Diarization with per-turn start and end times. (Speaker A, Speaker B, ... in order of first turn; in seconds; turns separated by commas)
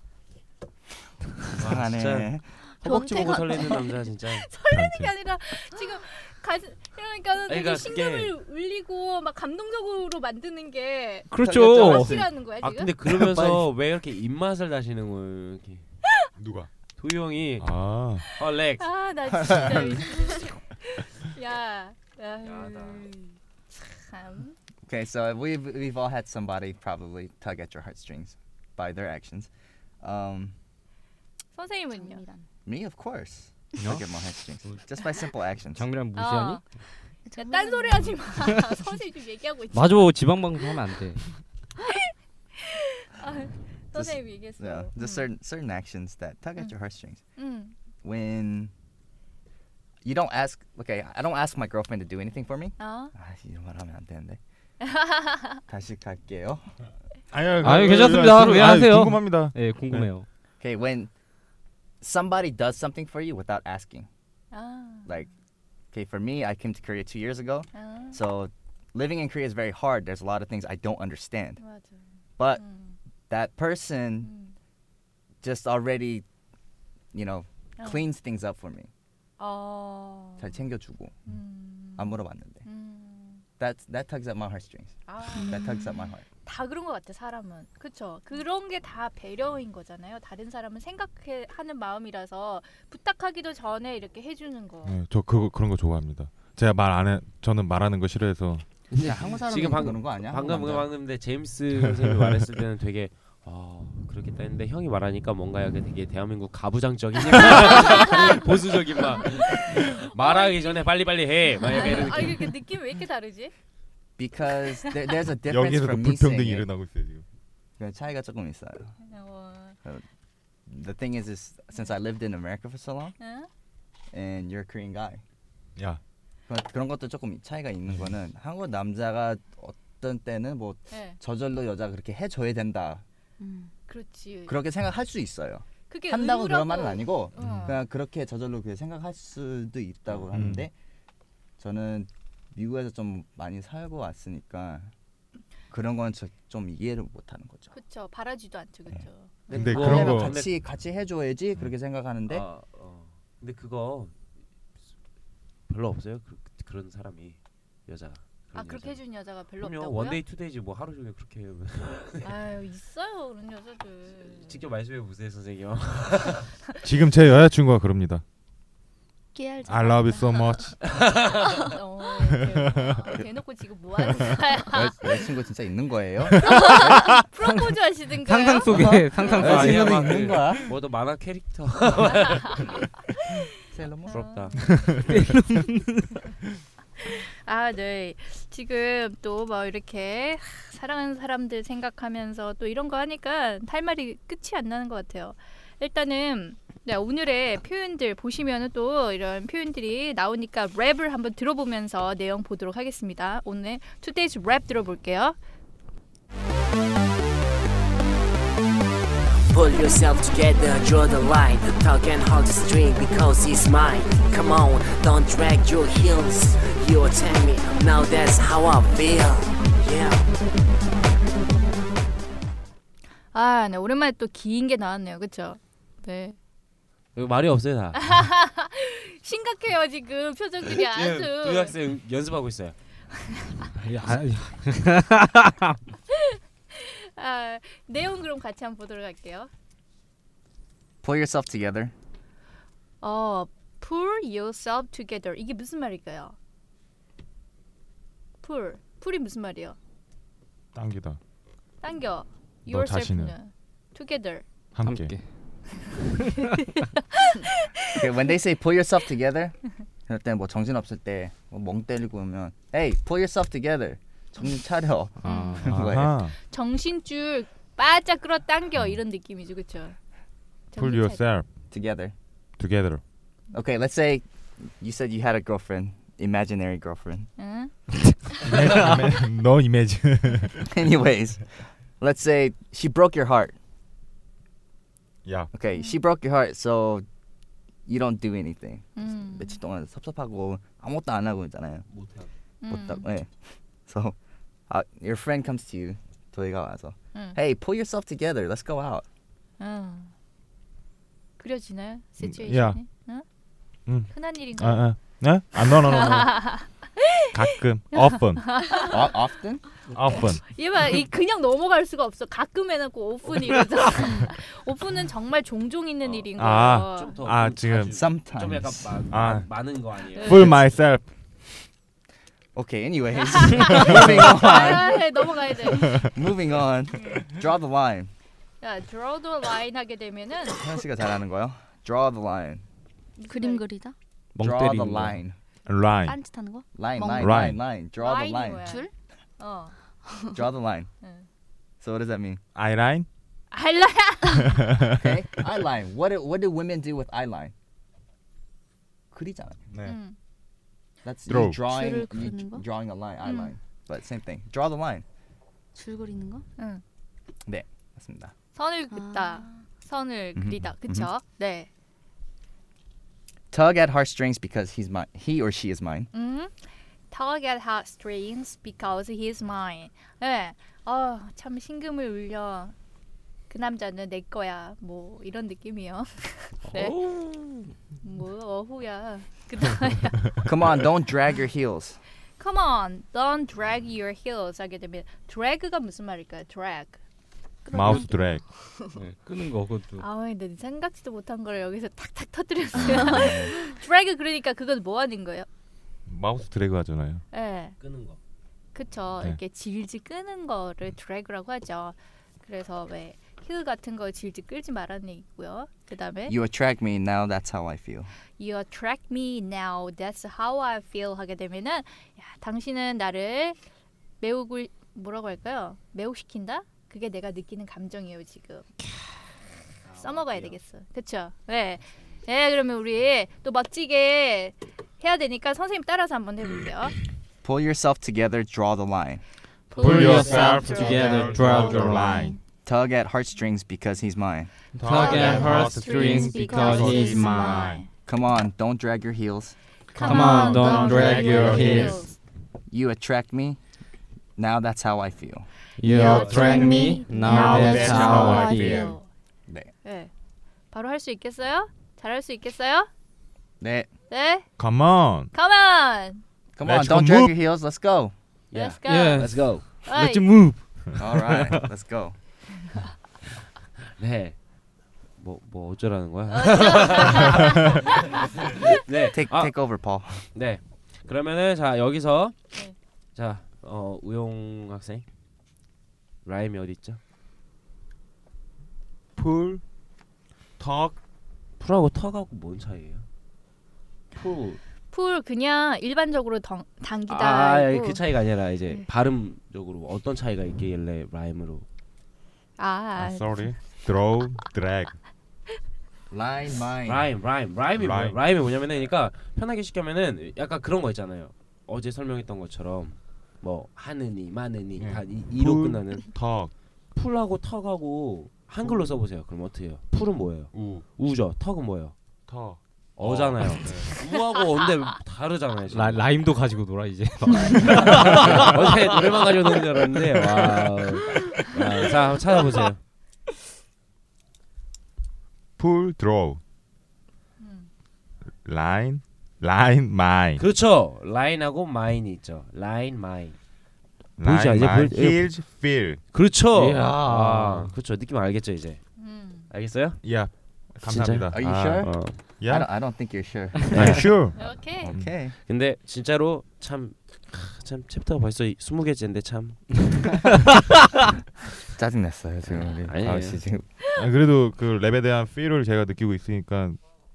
Speaker A: 1.6-2.4, Speaker B: 1.6-4.5, Speaker C: 2.8-3.9, Speaker D: 4.5-12.9, Speaker E: 4.7-5.1, Speaker B: 7.5-8.3, Speaker F: 11.3-12.3, Speaker A: 11.4-12.3, Speaker B: 12.6-15.8, Speaker A: 13.1-13.7, Speaker E: 16.4-16.7, Speaker B: 17.0-17.7, Speaker E: 17.6-18.3, Speaker B: 18.3-18.9, Speaker D: 18.8-24.6, Speaker A: 19.3-20.5, Speaker B: 22.4-23.1, Speaker A: 24.9-29.5, Speaker A: 30.0-30.6, Speaker D: 31.6-32.2, Speaker C: 31.9-32.5, Speaker A: 32.7-35.9, Speaker F: 33.8-34.0, Speaker F: 35.7-36.6, Speaker D: 36.1-36.6, Speaker C: 37.2-38.4, Speaker D: 37.4-40.2, Speaker F: 39.7-41.2, Speaker D: 42.1-45.3, Speaker A: 43.9-47.2, Speaker D: 47.4-47.7, Speaker A: 48.0-48.7, Speaker A: 50.0-54.4, Speaker D: 52.8-53.1, Speaker D: 54.8-55.6, Speaker A: 55.7-56.7, Speaker E: 57.3-60.1, Speaker F: 57.6-60.3, Speaker A: 60.6-61.1, Speaker A: 62.0-64.1, Speaker D: 64.5-65.1, Speaker A: 65.9-71.6, Speaker D: 67.7-68.2, Speaker D: 71.6-72.0, Speaker A: 72.4-72.6, Speaker D: 72.5-73.0, Speaker A: 73.3-74.3, Speaker D: 74.2-74.5, Speaker A: 75.4-76.3, Speaker A: 77.1-78.9, Speaker D: 77.8-78.1, Speaker D: 79.4-80.6, Speaker A: 80.4-81.2, Speaker D: 81.3-83.4, Speaker A: 82.0-82.7, Speaker A: 83.6-86.2, Speaker D: 85.1-85.8, Speaker C: 85.3-86.1, Speaker D: 86.5-95.0, Speaker E: 94.8-98.7, Speaker A: 98.9-100.9, Speaker B: 99.0-112.5, Speaker E: 101.9-102.2, Speaker D: 107.4-108.4, Speaker D: 109.2-110.9, Speaker D: 111.6-113.5, Speaker A: 114.2-116.7, Speaker E: 115.5-117.2, Speaker A: 117.8-119.0, Speaker D: 119.0-119.8, Speaker A: 120.7-123.2, Speaker D: 123.2-123.5, Speaker A: 124.1-125.2, Speaker A: 126.5-133.0, Speaker D: 130.9-131.2, Speaker C: 133.4-133.7, Speaker D: 133.9-134.6, Speaker A: 134.5-140.7, Speaker D: 135.9-137.8, Speaker E: 137.4-137.8, Speaker E: 140.3-140.7, Speaker A: 141.6-144.9, Speaker A: 145.7-147.8, Speaker D: 147.7-149.5, Speaker B: 149.5-150.5, Speaker A: 149.5-152.4, Speaker E: 149.5-150.4, Speaker B: 152.3-154.1, Speaker B: 155.7-159.0, Speaker D: 158.6-160.2, Speaker B: 159.6-162.3, Speaker D: 162.2-164.6, Speaker B: 164.2-166.5, Speaker E: 166.8-168.2, Speaker C: 169.3-170.8, Speaker E: 169.7-170.8, Speaker B: 170.8-171.4, Speaker D: 171.7-175.1, Speaker E: 172.4-173.1, Speaker A: 174.7-176.9, Speaker D: 176.4-179.3, Speaker F: 178.2-180.1, Speaker A: 178.7-180.7, Speaker B: 179.3-182.8, Speaker D: 182.1-183.4, Speaker A: 183.7-184.3, Speaker D: 184.1-185.0, Speaker B: 184.1-184.6, Speaker E: 184.6-185.1, Speaker F: 185.1-186.1, Speaker D: 187.0-205.4, Speaker G: 209.5-220.3, Speaker D: 223.3-226.4, Speaker B: 227.2-228.0, Speaker D: 227.9-231.8, Speaker B: 230.7-232.8, Speaker D: 233.3-233.7, Speaker F: 233.8-235.8, Speaker D: 236.1-239.5, Speaker A: 241.0-241.9, Speaker D: 243.0-246.4, Speaker D: 248.4-249.8, Speaker E: 250.7-251.2, Speaker D: 251.8-254.5, Speaker E: 252.7-253.4, Speaker E: 254.7-255.2, Speaker F: 254.8-255.7, Speaker D: 257.1-258.0, Speaker A: 257.9-266.1, Speaker F: 265.2-266.0, Speaker D: 265.2-265.6, Speaker E: 265.7-266.4, Speaker D: 266.5-270.0, Speaker D: 270.7-271.2, Speaker E: 270.8-271.5, Speaker A: 271.7-272.1, Speaker E: 272.6-273.0, Speaker A: 273.5-277.3, Speaker D: 277.4-278.5, Speaker E: 278.4-280.7, Speaker A: 280.7-283.6, Speaker E: 285.2-285.5, Speaker A: 285.5-287.1, Speaker A: 287.9-291.9, Speaker D: 289.0-289.6, Speaker B: 291.9-292.3, Speaker D: 292.6-293.1, Speaker A: 292.7-293.3, Speaker A: 293.9-294.2, Speaker A: 294.7-299.1, Speaker D: 299.6-300.1, Speaker D: 301.4-303.2, Speaker E: 302.2-302.9, Speaker E: 303.9-306.6, Speaker D: 304.0-309.2, Speaker E: 307.3-308.6, Speaker A: 308.9-309.7, Speaker E: 309.9-310.5, Speaker D: 310.4-317.2, Speaker B: 316.0-320.6, Speaker E: 316.4-318.1, Speaker A: 317.9-318.9, Speaker E: 319.1-319.5, Speaker D: 320.1-320.5, Speaker E: 320.2-321.6, Speaker A: 322.5-325.0, Speaker D: 323.3-326.1, Speaker E: 323.8-324.2, Speaker A: 325.8-328.1, Speaker D: 328.6-330.6, Speaker A: 330.5-332.6, Speaker D: 333.2-333.6, Speaker C: 333.3-333.9, Speaker F: 334.4-335.2, Speaker A: 334.4-335.4, Speaker E: 335.7-336.2, Speaker C: 336.1-337.5, Speaker A: 336.7-338.8, Speaker E: 337.2-337.6, Speaker D: 338.0-338.9, Speaker C: 338.6-338.9, Speaker D: 339.4-339.8, Speaker C: 340.0-340.4, Speaker A: 340.3-340.9, Speaker A: 341.8-342.4, Speaker E: 342.6-343.1, Speaker D: 343.5-344.6, Speaker E: 344.3-345.1, Speaker A: 345.0-347.5, Speaker A: 349.1-349.7, Speaker E: 349.7-350.0, Speaker D: 349.8-350.1, Speaker A: 351.0-355.1, Speaker E: 351.3-351.6, Speaker C: 351.6-352.7, Speaker D: 353.2-353.5, Speaker C: 355.7-356.5, Speaker A: 357.4-358.3, Speaker D: 358.6-361.7, Speaker C: 358.9-359.6, Speaker A: 360.4-361.1, Speaker A: 363.5-366.1, Speaker D: 366.1-366.6, Speaker D: 367.1-372.7, Speaker D: 373.5-377.0, Speaker F: 376.7-377.7, Speaker D: 378.0-380.4, Speaker A: 380.4-382.0, Speaker D: 382.4-387.0, Speaker C: 387.6-389.0, Speaker E: 387.7-388.4, Speaker F: 388.9-390.1, Speaker D: 390.0-395.5, Speaker C: 392.8-393.7, Speaker A: 392.9-393.5, Speaker E: 396.1-397.2, Speaker D: 397.3-397.8, Speaker B: 397.8-398.2, Speaker D: 398.7-406.4, Speaker A: 406.3-408.1, Speaker D: 408.4-413.6, Speaker D: 414.2-418.7, Speaker B: 419.8-420.6, Speaker D: 420.0-427.0, Speaker A: 427.4-429.2, Speaker D: 429.7-431.8, Speaker E: 429.8-432.4, Speaker F: 429.8-432.2, Speaker C: 430.6-432.4, Speaker A: 432.6-434.5, Speaker E: 434.8-437.8, Speaker F: 434.8-437.6, Speaker D: 434.9-437.9, Speaker C: 434.9-437.7, Speaker A: 438.1-439.6, Speaker D: 439.9-442.1, Speaker C: 440.0-442.1, Speaker F: 440.0-442.1, Speaker E: 440.1-441.9, Speaker A: 442.7-443.6, Speaker A: 444.4-445.5, Speaker F: 445.8-448.9, Speaker D: 445.8-449.1, Speaker C: 445.9-448.9, Speaker E: 447.3-448.9, Speaker A: 449.5-449.7, Speaker D: 449.8-450.1, Speaker D: 450.7-452.9, Speaker A: 453.6-453.9, Speaker D: 454.1-454.5, Speaker E: 454.6-455.3, Speaker D: 455.3-456.2, Speaker A: 456.6-458.1, Speaker E: 456.6-457.4, Speaker B: 458.5-459.7, Speaker D: 458.5-460.3, Speaker F: 458.9-461.7, Speaker A: 461.0-462.2, Speaker B: 464.0-464.4, Speaker B: 465.2-469.5, Speaker D: 466.3-468.7, Speaker A: 469.0-470.3, Speaker B: 470.3-472.4, Speaker B: 473.1-475.1, Speaker B: 476.2-477.0, Speaker E: 479.2-479.6, Speaker E: 480.6-481.0, Speaker B: 481.6-483.1, Speaker B: 484.1-484.6, Speaker D: 484.9-488.0, Speaker B: 487.1-491.6, Speaker D: 492.6-493.6, Speaker E: 493.0-495.0, Speaker A: 496.1-497.1, Speaker B: 496.9-506.1, Speaker E: 497.8-498.2, Speaker E: 504.8-506.5, Speaker B: 506.9-511.9, Speaker E: 508.6-509.0, Speaker E: 510.5-510.9, Speaker E: 512.3-513.9, Speaker B: 513.0-516.1, Speaker F: 515.7-519.0, Speaker B: 517.6-522.8, Speaker E: 518.2-518.5, Speaker F: 520.3-522.0, Speaker E: 525.6-526.4, Speaker D: 527.4-527.7, Speaker E: 528.4-530.4, Speaker B: 530.4-533.4, Speaker E: 534.2-536.0, Speaker B: 534.2-535.3, Speaker B: 536.1-538.9, Speaker F: 536.5-537.7, Speaker D: 539.0-539.5, Speaker B: 539.5-540.0, Speaker E: 540.0-542.7, Speaker B: 540.8-542.2, Speaker A: 541.3-545.4, Speaker B: 543.7-544.0, Speaker E: 543.7-545.1, Speaker D: 544.4-544.9, Speaker B: 545.3-550.2, Speaker A: 551.8-553.7, Speaker B: 552.4-553.4, Speaker E: 553.9-556.8